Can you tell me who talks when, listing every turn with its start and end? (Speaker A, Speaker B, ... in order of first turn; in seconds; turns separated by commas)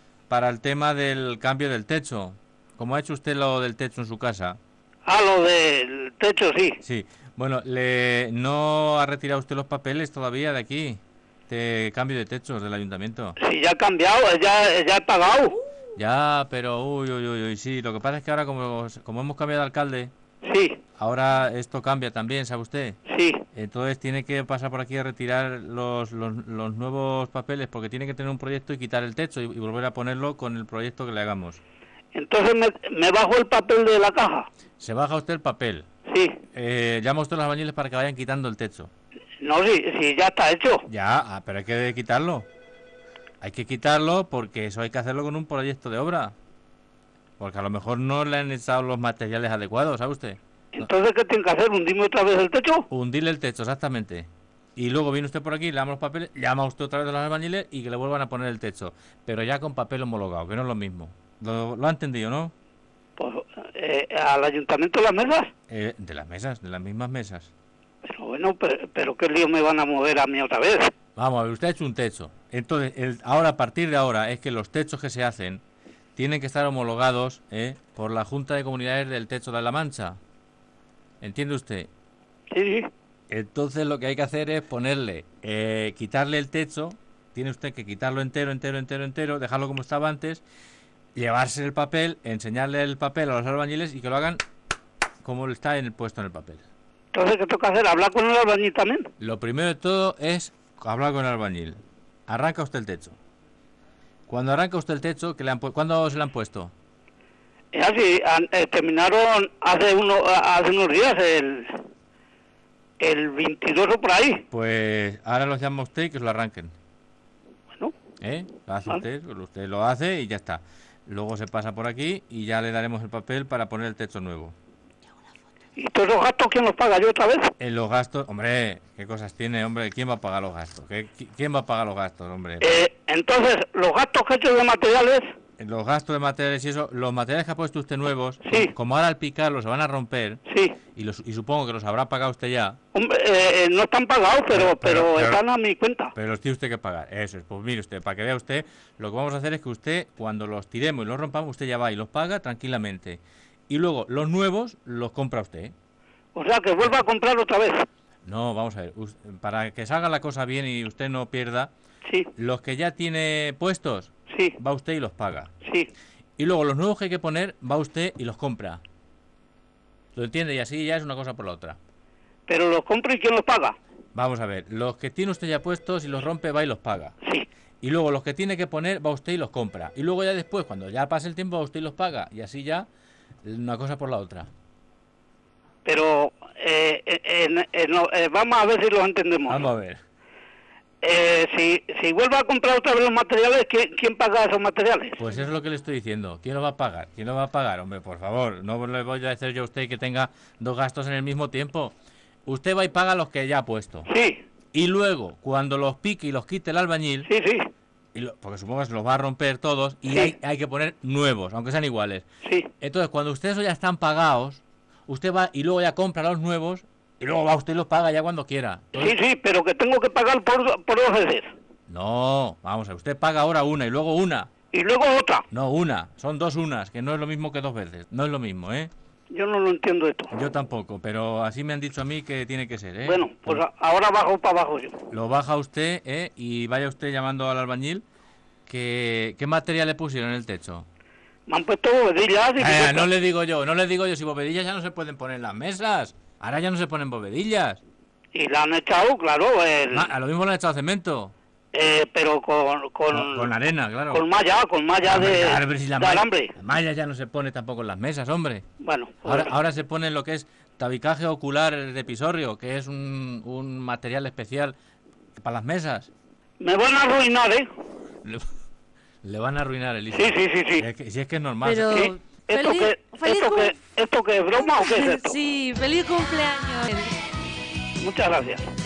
Speaker A: 0.3-4.6, Speaker B: 5.0-6.8, Speaker A: 6.8-13.3, Speaker B: 13.4-15.6, Speaker A: 15.9-20.1, Speaker B: 20.4-20.8, Speaker A: 21.0-23.0, Speaker B: 23.1-23.4, Speaker A: 23.5-31.6, Speaker B: 32.1-34.5, Speaker A: 34.8-35.9, Speaker B: 36.1-36.4, Speaker A: 36.5-38.9, Speaker B: 39.4-40.9, Speaker A: 40.9-42.5, Speaker A: 43.4-46.3, Speaker A: 47.4-50.9, Speaker B: 50.7-52.9, Speaker A: 52.9-62.5, Speaker B: 63.2-65.5, Speaker A: 65.7-67.5, Speaker B: 68.0-70.9, Speaker A: 71.2-75.6, Speaker A: 76.2-80.2, Speaker A: 81.2-81.9, Speaker B: 82.5-82.9, Speaker A: 83.3-90.4, Speaker A: 91.1-94.4, Speaker A: 95.2-96.6, Speaker B: 97.1-99.1, Speaker A: 99.2-103.2, Speaker A: 104.3-106.7, Speaker B: 107.7-111.8, Speaker B: 113.0-114.4, Speaker A: 114.5-116.7, Speaker A: 118.2-124.5, Speaker B: 125.8-127.5, Speaker A: 127.6-132.8, Speaker B: 132.6-135.3, Speaker A: 135.6-140.4, Speaker B: 138.4-138.7, Speaker B: 140.5-140.8, Speaker A: 140.9-142.8, Speaker B: 142.9-146.1, Speaker A: 144.5-145.4, Speaker A: 146.1-155.7, Speaker B: 156.3-157.8, Speaker A: 158.2-161.7, Speaker A: 162.3-165.5, Speaker B: 164.3-164.6, Speaker B: 165.6-165.9, Speaker A: 166.4-168.8, Speaker A: 170.1-171.8, Speaker B: 172.5-173.8, Speaker A: 174.1-177.2, Speaker B: 177.2-177.5, Speaker A: 177.8-182.9, Speaker A: 183.4-184.5, Speaker B: 185.8-189.6, Speaker A: 189.5-190.0, Speaker B: 191.0-195.2, Speaker A: 195.2-201.9, Speaker A: 202.4-204.1, Speaker B: 204.1-204.4, Speaker A: 204.7-207.3, Speaker B: 207.2-207.7, Speaker A: 208.1-212.2, Speaker B: 212.4-212.7, Speaker A: 212.8-219.2, Speaker B: 218.9-221.5, Speaker A: 221.9-224.5, Speaker B: 224.7-225.4, Speaker A: 225.5-228.9, Speaker B: 229.3-230.3, Speaker A: 230.3-233.6, Speaker B: 233.0-235.0, Speaker A: 235.1-238.0, Speaker A: 238.7-240.9, Speaker B: 241.5-243.1, Speaker A: 242.6-247.8, Speaker B: 248.3-250.1, Speaker A: 249.9-251.3, Speaker B: 251.7-253.5, Speaker A: 253.1-254.2, Speaker B: 254.1-256.6, Speaker A: 255.0-258.6, Speaker B: 258.8-259.5, Speaker A: 259.2-264.8, Speaker A: 265.4-266.1, Speaker B: 266.6-267.7, Speaker A: 269.2-272.0, Speaker B: 270.1-270.9, Speaker C: 271.6-273.7, Speaker B: 271.9-275.4, Speaker C: 274.6-277.2, Speaker B: 278.0-278.7